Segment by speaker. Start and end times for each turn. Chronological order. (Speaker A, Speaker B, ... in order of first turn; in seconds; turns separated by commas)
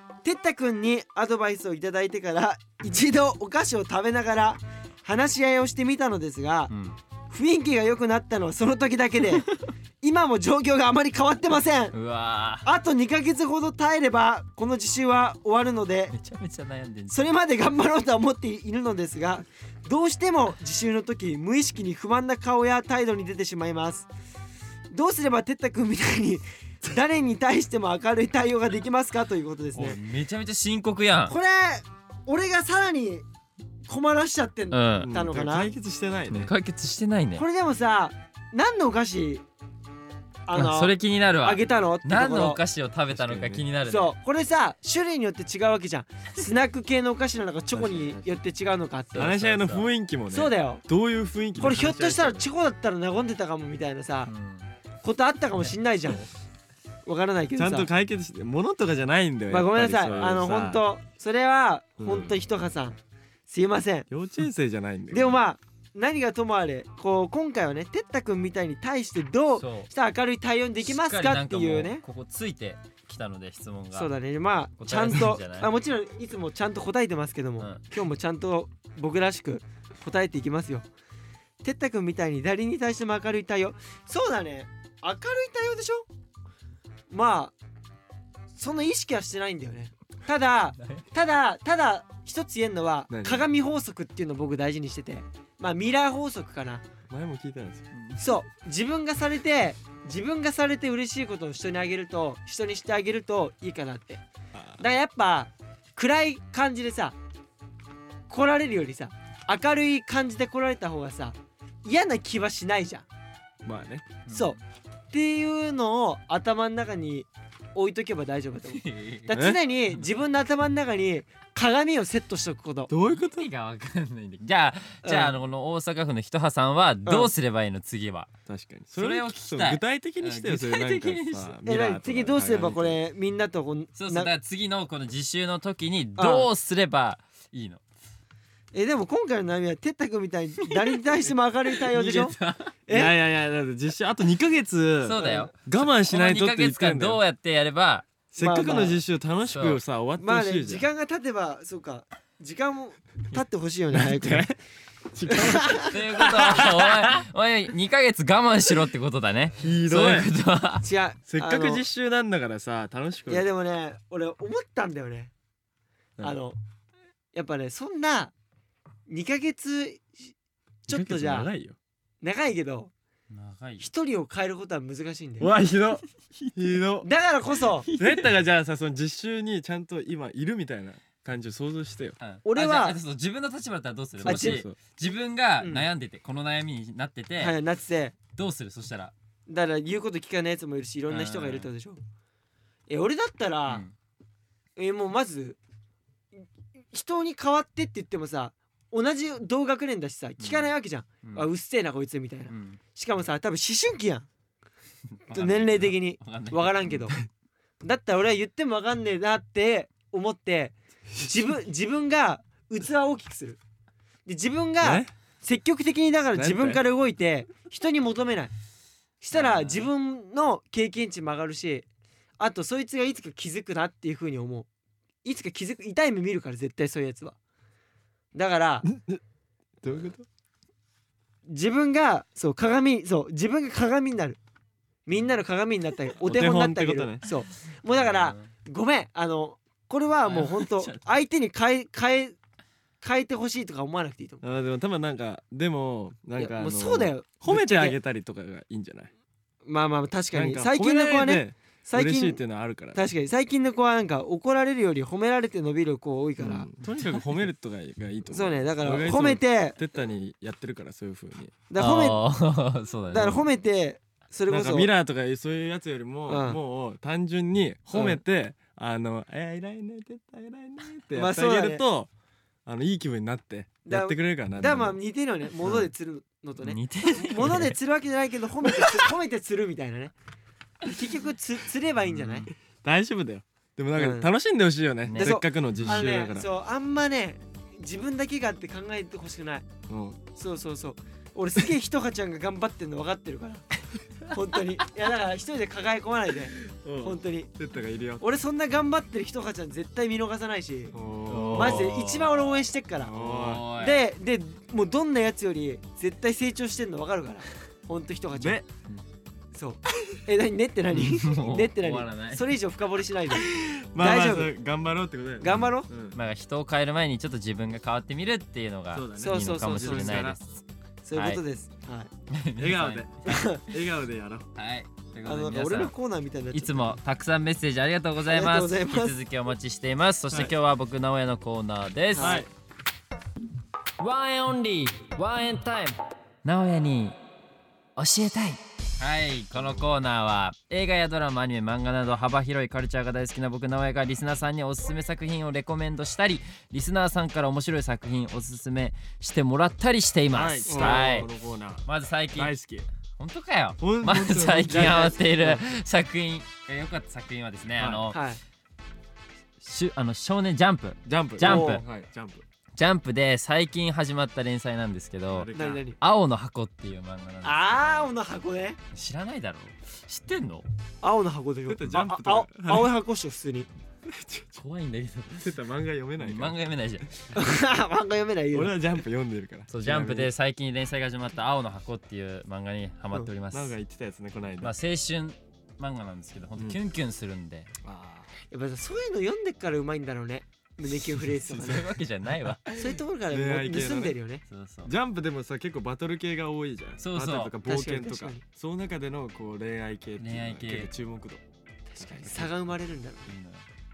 Speaker A: 0.2-6.7, Speaker B: 6.7-7.0, Speaker A: 7.3-9.5, Speaker A: 10.0-11.9, Speaker B: 11.9-12.7, Speaker A: 12.6-16.1, Speaker B: 16.1-17.3, Speaker A: 17.1-24.1, Speaker A: 24.9-30.0, Speaker B: 29.8-31.4, Speaker A: 31.3-33.2, Speaker A: 33.9-35.7, Speaker B: 34.7-35.1, Speaker C: 35.0-36.5, Speaker B: 36.3-37.4, Speaker A: 37.4-39.4, Speaker A: 40.5-42.6, Speaker B: 40.5-44.1, Speaker C: 43.1-43.6, Speaker A: 43.9-49.3, Speaker C: 47.7-48.4, Speaker B: 49.1-49.9, Speaker C: 49.2-52.4, Speaker A: 50.3-50.8, Speaker A: 51.6-54.3, Speaker B: 54.3-54.7, Speaker A: 55.0-56.3, Speaker A: 57.1-57.9, Speaker C: 57.6-60.8, Speaker A: 59.5-64.1, Speaker C: 62.0-62.4, Speaker C: 64.1-65.4, Speaker A: 65.1-72.0, Speaker B: 69.6-69.9, Speaker B: 70.8-74.1, Speaker A: 73.9-80.9, Speaker B: 74.8-75.7, Speaker A: 81.6-86.1, Speaker A: 87.1-87.5, Speaker A: 88.5-96.8, Speaker C: 93.1-93.5, Speaker C: 97.1-97.9, Speaker B: 97.9-98.2, Speaker A: 98.2-104.2, Speaker C: 104.5-104.8, Speaker A: 104.8-107.2, Speaker A: 108.3-113.1, Speaker C: 113.6-114.1, Speaker B: 114.3-114.6, Speaker A: 114.3-114.6, Speaker A: 115.1-122.9, Speaker B: 118.7-119.3, Speaker C: 119.3-119.6, Speaker C: 122.9-123.5, Speaker B: 123.1-128.3, Speaker A: 125.0-125.3, Speaker C: 128.5-133.0, Speaker B: 129.0-131.6, Speaker A: 131.7-134.3, Speaker B: 134.0-137.8, Speaker A: 136.2-136.5, Speaker A: 138.7-142.4, Speaker B: 140.7-141.0, Speaker B: 141.8-142.7, Speaker A: 142.9-143.2, Speaker C: 142.9-147.2, Speaker B: 145.0-148.1, Speaker A: 145.2-145.5, Speaker C: 148.3-150.9, Speaker A: 148.4-149.0, Speaker B: 149.4-149.8, Speaker A: 150.2-154.5, Speaker C: 153.9-154.6, Speaker C: 155.1-157.2, Speaker A: 155.3-155.9, Speaker B: 155.8-160.8, Speaker C: 159.6-160.3, Speaker A: 160.8-161.8, Speaker C: 161.3-163.5, Speaker A: 163.3-165.3, Speaker A: 166.2-166.6, Speaker A: 167.3-168.3, Speaker A: 169.1-170.3, Speaker A: 170.9-171.5, Speaker C: 170.9-171.8, Speaker A: 172.2-172.9, Speaker B: 173.3-173.9, Speaker A: 173.8-175.5, Speaker C: 175.4-176.0, Speaker C: 176.6-177.1, Speaker A: 177.0-177.9, Speaker B: 177.8-178.3, Speaker C: 178.0-182.2, Speaker B: 182.2-187.6, Speaker A: 182.4-183.0, Speaker C: 184.2-184.8, Speaker A: 184.2-184.6, Speaker A: 185.6-185.9, Speaker A: 187.4-188.2, Speaker B: 188.4-189.1, Speaker A: 189.5-192.0, Speaker B: 191.1-191.7, Speaker A: 192.9-193.8, Speaker B: 193.7-193.9, Speaker A: 194.8-195.6, Speaker A: 196.4-204.3, Speaker B: 200.4-200.7, Speaker B: 202.5-202.8, Speaker B: 205.2-207.0, Speaker A: 205.3-207.2, Speaker A: 207.8-213.6, Speaker A: 214.3-218.5, Speaker C: 214.8-215.1, Speaker C: 216.3-216.8, Speaker A: 219.2-221.9, Speaker B: 219.3-219.9, Speaker A: 222.4-224.7, Speaker A: 225.2-227.4, Speaker A: 228.3-228.9, Speaker C: 228.8-229.2, Speaker C: 229.8-230.2, Speaker A: 231.5-234.4, Speaker A: 235.1-242.4, Speaker C: 236.2-237.2, Speaker B: 237.9-238.5, Speaker B: 240.2-241.0, Speaker A: 243.0-244.4, Speaker C: 244.4-249.1, Speaker A: 246.4-248.0, Speaker A: 249.7-252.4, Speaker C: 250.3-253.0, Speaker A: 252.9-256.7, Speaker C: 256.4-261.6, Speaker A: 258.3-259.8, Speaker A: 261.7-262.2, Speaker B: 261.8-263.5, Speaker A: 263.1-264.9, Speaker C: 264.5-272.1, Speaker A: 266.3-266.6, Speaker A: 267.9-268.2, Speaker A: 271.1-271.8, Speaker C: 272.7-275.0, Speaker A: 273.9-280.1, Speaker C: 275.6-275.9, Speaker B: 276.6-277.8, Speaker A: 280.8-282.5, Speaker B: 282.1-282.5, Speaker C: 282.8-286.5, Speaker A: 283.9-284.3, Speaker B: 285.1-286.1, Speaker A: 285.2-289.7, Speaker C: 289.9-290.2, Speaker A: 290.4-293.7, Speaker A: 294.3-297.5, Speaker C: 296.6-298.3, Speaker A: 298.2-301.0, Speaker C: 300.9-301.9, Speaker B: 301.3-304.0, Speaker A: 301.5-303.2, Speaker C: 303.0-303.7, Speaker A: 303.8-308.6, Speaker C: 308.4-308.7, Speaker A: 309.5-314.5, Speaker B: 310.9-312.5, Speaker C: 313.3-316.2, Speaker A: 315.4-315.9, Speaker B: 315.5-320.6, Speaker C: 318.9-320.4, Speaker A: 319.2-320.3, Speaker A: 321.1-322.1, Speaker B: 321.1-321.4, Speaker B: 322.3-323.4, Speaker C: 322.6-324.5, Speaker A: 323.2-323.6, Speaker B: 324.6-325.9, Speaker A: 325.2-327.0, Speaker B: 326.5-332.4, Speaker A: 328.3-329.2, Speaker A: 332.1-332.5, Speaker C: 332.1-332.5, Speaker B: 334.0-337.2, Speaker B: 338.0-351.3, Speaker C: 350.3-352.9, Speaker A: 350.7-351.2, Speaker B: 351.9-352.6, Speaker B: 353.2-358.2, Speaker C: 353.8-355.6, Speaker A: 354.7-355.6, Speaker C: 357.8-358.1, Speaker A: 358.1-358.4, Speaker B: 359.6-361.9, Speaker C: 361.1-362.4, Speaker A: 361.4-361.8, Speaker B: 362.8-368.1, Speaker C: 365.3-365.8, Speaker A: 365.5-366.0, Speaker A: 367.4-368.8, Speaker B: 368.9-370.7, Speaker A: 371.0-373.7, Speaker C: 371.7-372.9, Speaker C: 374.1-374.6, Speaker B: 374.6-375.5, Speaker C: 375.4-376.6, Speaker B: 376.2-377.2, Speaker A: 377.3-378.8, Speaker C: 378.5-380.3, Speaker B: 379.7-383.7, Speaker C: 383.5-384.7, Speaker B: 384.6-387.7, Speaker C: 387.8-388.3, Speaker A: 388.5-391.9, Speaker B: 391.4-392.7, Speaker A: 392.7-394.4, Speaker C: 393.3-394.2, Speaker B: 394.5-394.9, Speaker C: 394.9-401.4, Speaker B: 397.0-397.6, Speaker A: 397.6-398.4, Speaker B: 400.2-400.9, Speaker A: 401.9-403.3, Speaker C: 402.0-402.5, Speaker B: 403.3-403.6